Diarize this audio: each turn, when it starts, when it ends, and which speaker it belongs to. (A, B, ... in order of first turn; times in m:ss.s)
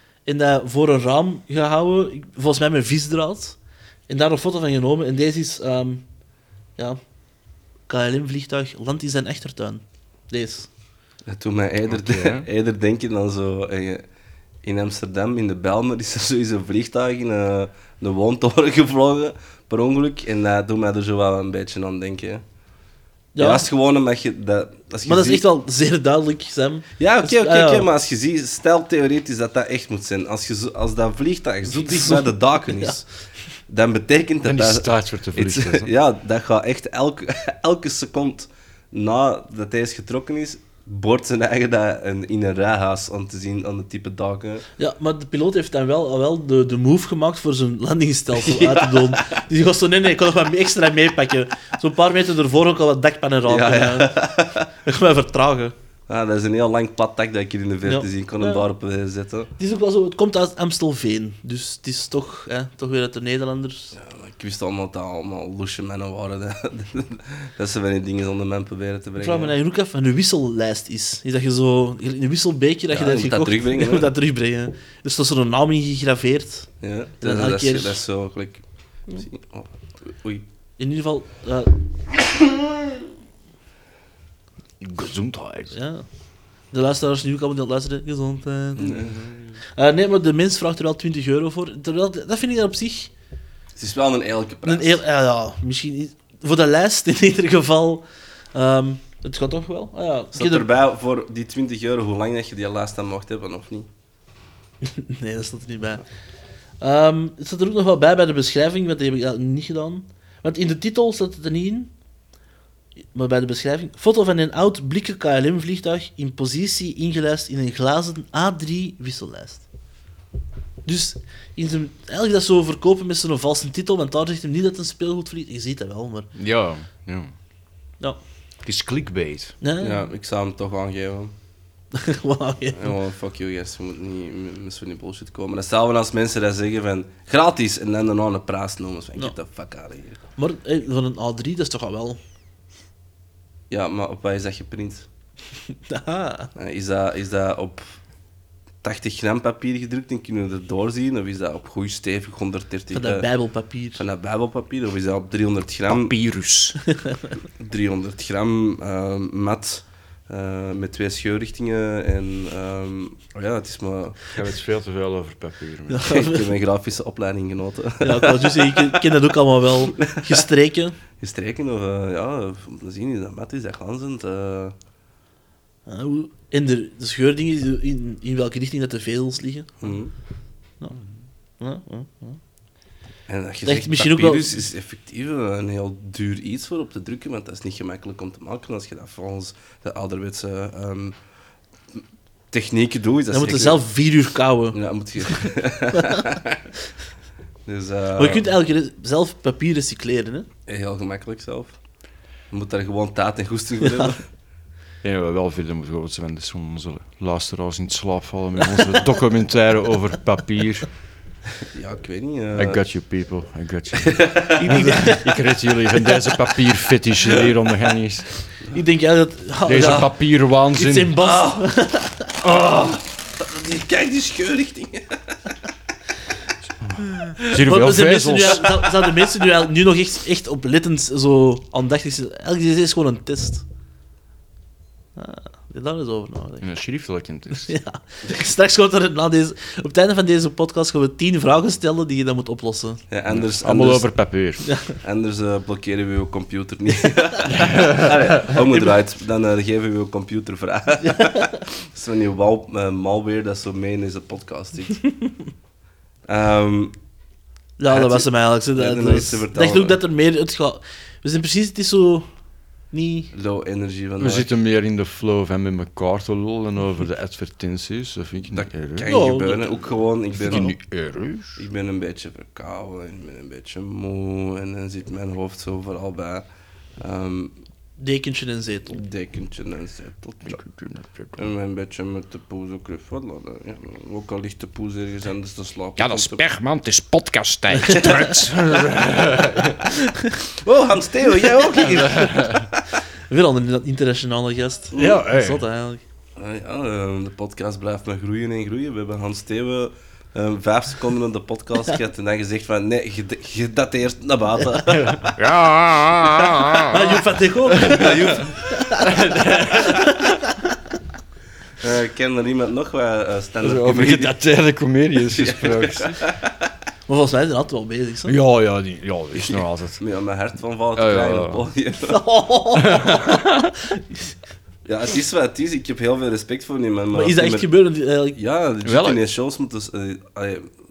0:00.2-0:06.1 A
0:07.9-0:10.7 A
0:11.3-0:14.0 B
0:11.9-0:12.5 C
0:14.6-0:22.4 B
0:23.3-0:23.6 A
0:23.4-0:25.4 B
0:25.0-0:27.9 A
0:27.0-0:44.6 B
0:31.7-0:32.9 A
0:34.4-0:35.9 C
0:44.8-0:55.7 A
0:48.4-0:49.3 B
0:53.5-0:54.6 B
0:56.1-0:59.5 B
0:57.9-0:58.6 A
0:59.6-1:03.9 A
1:03.9-1:09.5 B
1:09.2-1:18.0 A
1:12.9-1:14.1 B
1:16.8-1:20.4 B
1:20.8-1:21.8 A
1:24.8-1:25.7 C
1:25.7-1:26.0 A
1:26.7-1:29.0 A
1:28.8-1:29.2 B
1:28.9-1:29.6 C
1:29.7-1:33.1 A
1:33.8-1:35.0 B
1:34.6-1:40.6 A
1:40.4-1:43.9 B
1:44.8-1:46.0 A
1:46.8-1:51.9 A
1:53.1-1:59.7 A
2:00.8-2:06.3 A
2:06.3-2:07.3 C
2:08.6-2:09.5 C
2:09.6-2:10.0 A
2:09.8-2:11.3 B
2:11.9-2:12.9 A
2:12.8-2:20.2 B
2:20.4-2:22.2 A
2:23.7-2:25.0 B
2:25.9-2:26.5 A
2:26.6-2:27.9 B
2:28.8-2:33.3 B
2:32.9-2:34.0 A
2:33.9-2:36.1 B
2:35.9-2:36.8 C
2:37.6-2:44.3 B
2:44.3-2:46.1 C
2:45.9-2:46.5 A
2:46.1-2:49.0 B
2:48.0-2:51.0 A
2:50.0-2:50.4 B
2:51.2-2:54.7 B
2:55.9-2:59.9 A
2:59.8-3:00.1 B
3:01.6-3:02.4 A
3:03.3-3:11.1 B
3:03.6-3:04.6 A
3:12.5-3:13.8 B
3:13.3-3:14.8 A
3:14.7-3:16.6 B
3:17.6-3:18.5 B
3:18.2-3:20.5 A
3:20.7-3:21.8 B
3:22.5-3:24.2 B
3:25.0-3:30.9 C
3:31.7-3:32.8 B
3:32.5-3:38.3 C
3:34.0-3:34.6 B
3:34.6-3:35.3 A
3:38.7-3:40.1 A
3:39.6-3:41.1 C
3:39.8-3:40.1 B
3:40.8-3:42.3 A
3:41.2-3:41.6 B
3:42.4-3:45.2 B
3:46.8-3:48.8 C
3:47.6-3:53.6 A
3:48.5-3:48.9 B
3:55.2-3:56.7 A
3:56.6-3:57.7 C
3:57.5-4:03.0 A
4:03.1-4:04.2 B
4:03.3-4:04.7 C
4:05.0-4:15.0 B
4:07.6-4:08.2 C
4:08.5-4:08.9 A
4:11.1-4:11.4 A
4:16.2-4:16.9 B
4:17.8-4:22.3 A
4:17.9-4:20.0 B
4:22.9-4:23.3 A
4:23.3-4:24.5 B
4:24.2-4:29.1 C
4:28.5-4:30.8 B
4:29.0-4:30.0 A
4:30.3-4:31.6 C
4:31.6-4:36.4 B
4:37.0-4:37.5 B
4:38.0-4:39.0 A
4:38.9-4:40.6 B
4:40.4-4:41.4 C
4:41.3-4:46.4 B
4:46.0-4:49.8 C
4:47.9-4:48.2 B
4:50.6-4:52.7 B
4:51.9-4:52.6 C
4:53.3-4:56.0 A
4:54.9-4:55.2 B
4:54.9-4:55.6 C
4:56.4-5:05.3 B
5:04.9-5:07.2 C
5:06.9-5:09.1 A
5:07.7-5:08.8 B
5:07.8-5:08.4 C
5:09.0-5:10.4 C
5:09.7-5:10.4 A
5:11.8-5:14.4 B
5:13.6-5:16.2 C
5:15.3-5:16.5 B
5:17.1-5:18.4 A
5:18.3-5:20.0 C
5:19.5-5:22.2 B
5:21.0-5:21.6 C
5:22.1-5:23.6 A
5:22.8-5:23.7 C
5:24.8-5:27.7 B
5:27.1-5:28.4 A
5:28.3-5:30.7 B
5:28.8-5:29.2 C